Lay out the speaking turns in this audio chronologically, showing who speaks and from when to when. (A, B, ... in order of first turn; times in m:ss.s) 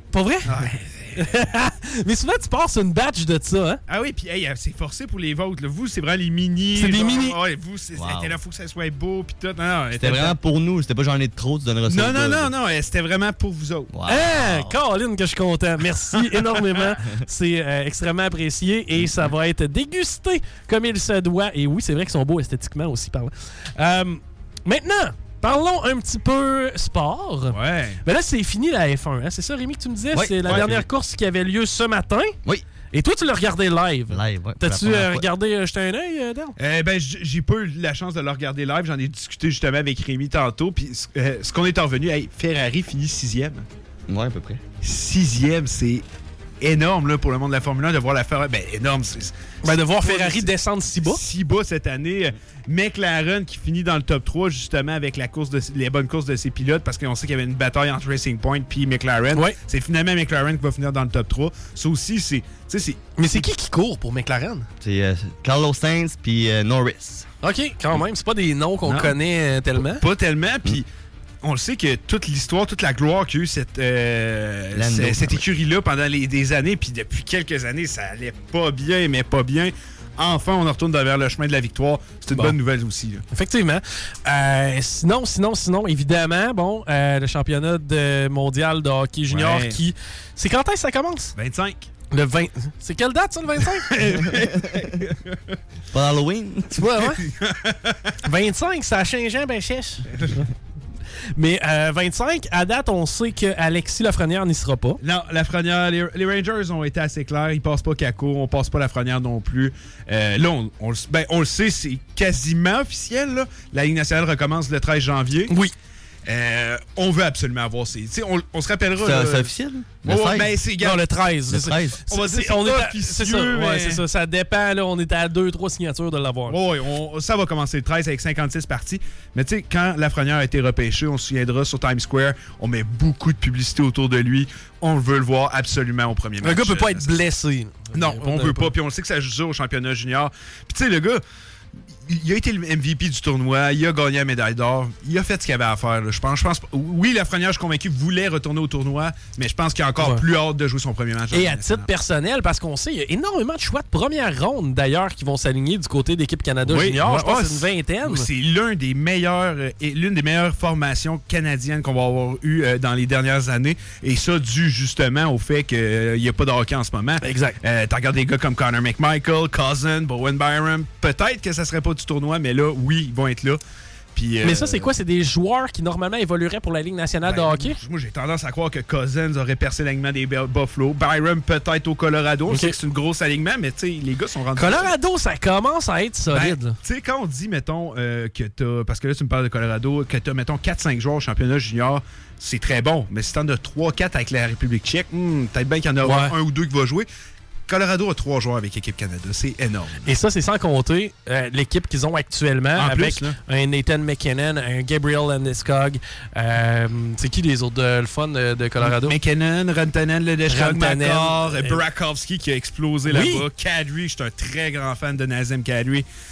0:00.1-0:03.8 A
0:00.5-0:01.3 B
0:03.9-0:10.4 B
0:06.8-0:07.4 A
0:08.0-0:08.4 C
0:09.9-0:12.5 C
0:11.9-0:13.9 B
0:13.9-0:14.8 C
0:14.1-0:32.4 A
0:27.5-0:28.0 B
0:30.1-0:30.8 C
0:30.5-0:30.8 B
0:32.9-0:36.6 A
0:34.1-0:35.3 C
0:36.6-0:43.7 B
0:44.1-0:44.6 C
0:44.8-0:46.0 B
0:46.6-0:49.3 B
0:49.6-0:51.2 A
0:50.0-1:03.0 B
1:03.2-1:04.7 A
1:04.8-1:07.3 C
1:07.4-1:10.0 A
1:10.0-1:10.9 B
1:11.4-1:23.2 B
1:14.8-1:15.4 C
1:22.3-1:22.6 A
1:23.3-1:31.3 A
1:29.3-1:29.8 B
1:31.4-1:31.8 B
1:32.1-1:33.9 A
1:33.9-1:35.4 B
1:35.9-1:36.8 C
1:36.8-1:37.2 A
1:37.2-1:38.1 B
1:38.2-1:40.4 A
1:41.4-1:45.0 A
1:45.0-1:55.5 B
1:56.3-2:01.0 B
1:59.0-2:00.6 C
2:00.8-2:06.6 A
2:01.5-2:02.0 C
2:02.1-2:04.0 B
2:06.5-2:17.1 B
2:16.4-2:18.7 A
2:17.9-2:21.2 B
2:22.1-2:31.9 B
2:30.0-2:30.2 A
2:31.3-2:38.3 A
2:36.7-2:53.6 B
2:47.2-2:47.6 A
2:54.2-2:54.9 B
2:54.4-2:57.8 A
2:57.3-3:04.9 B
3:02.5-3:02.8 A
3:04.6-3:06.8 A
3:06.3-3:17.1 B
3:16.0-3:16.3 A
3:17.7-3:20.0 B
3:20.0-3:29.2 A
3:22.8-3:23.4 B
3:28.8-3:36.0 B
3:30.5-3:31.8 A
3:33.1-3:33.4 A